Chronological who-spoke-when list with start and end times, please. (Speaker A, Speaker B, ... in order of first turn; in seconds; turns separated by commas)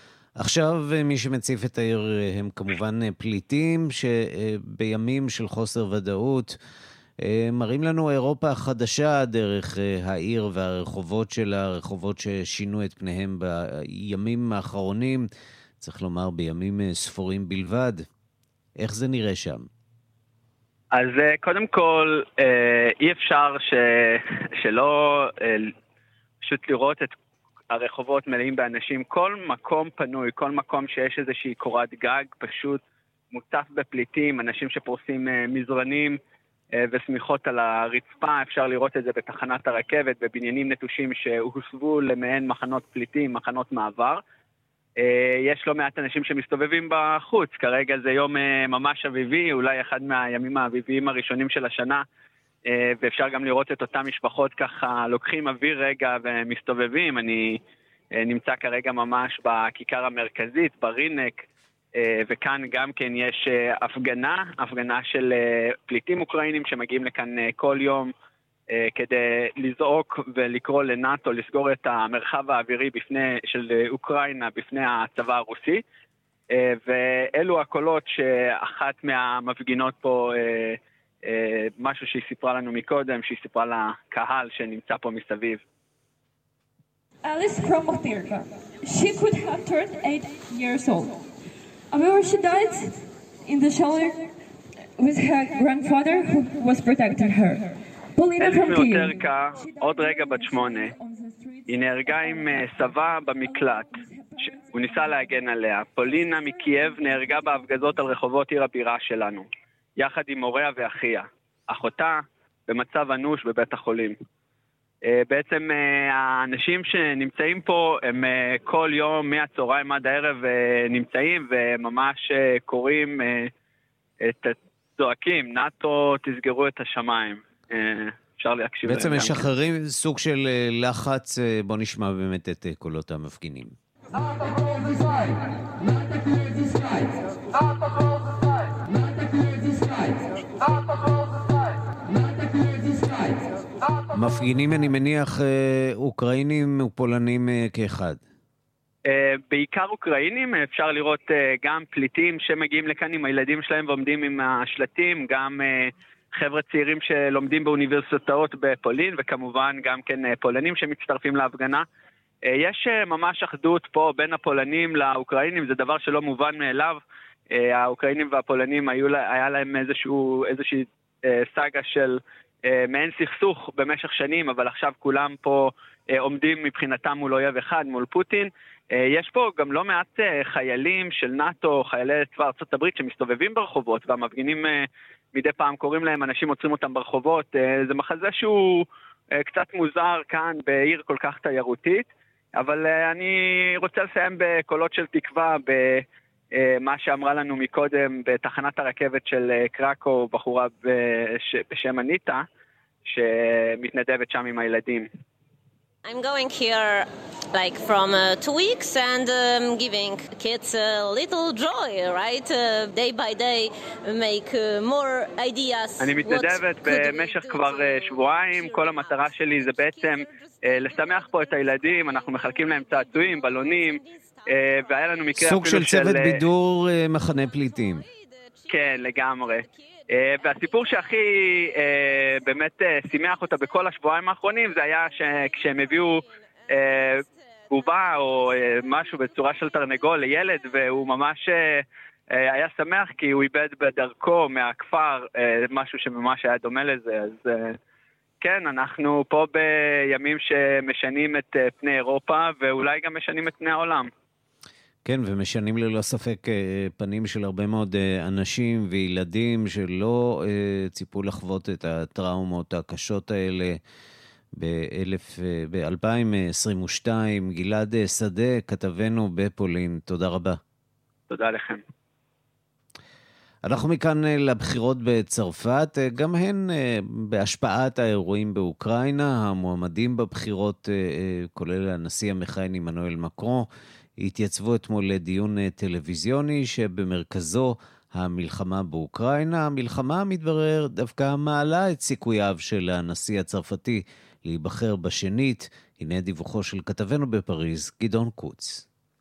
Speaker A: 0.4-6.5, Speaker A: 7.2-15.3, Speaker A: 15.8-18.0, Speaker A: 18.8-19.7, Speaker B: 20.9-25.7, Speaker B: 26.4-27.1, Speaker B: 27.7-32.8, Speaker B: 33.3-36.2, Speaker B: 36.8-44.2, Speaker B: 45.0-52.0, Speaker B: 52.7-57.6, Speaker B: 58.2-68.1, Speaker B: 68.7-75.8, Speaker B: 76.5-85.6, Speaker C: 87.2-91.2, Speaker C: 91.9-92.9, Speaker C: 93.5-94.3, Speaker C: 95.0-102.8, Speaker B: 98.4-100.9, Speaker B: 101.7-104.0, Speaker C: 103.4-105.3, Speaker B: 104.7-114.2, Speaker C: 106.0-107.6, Speaker B: 115.0-123.5, Speaker B: 124.2-129.5, Speaker A: 128.8-133.8, Speaker A: 144.1-148.2, Speaker B: 149.1-161.8, Speaker B: 162.5-188.9, Speaker B: 189.4-202.4, Speaker B: 203.1-205.1, Speaker D: 206.0-225.7, Speaker B: 216.0-226.4, Speaker A: 225.4-228.0, Speaker D: 227.3-232.6, Speaker B: 228.7-247.8, Speaker D: 233.2-233.8, Speaker D: 234.5-241.1, Speaker B: 248.4-254.1, Speaker A: 255.0-263.8, Speaker A: 264.6-270.6, Speaker B: 271.3-271.8, Speaker A: 273.6-298.8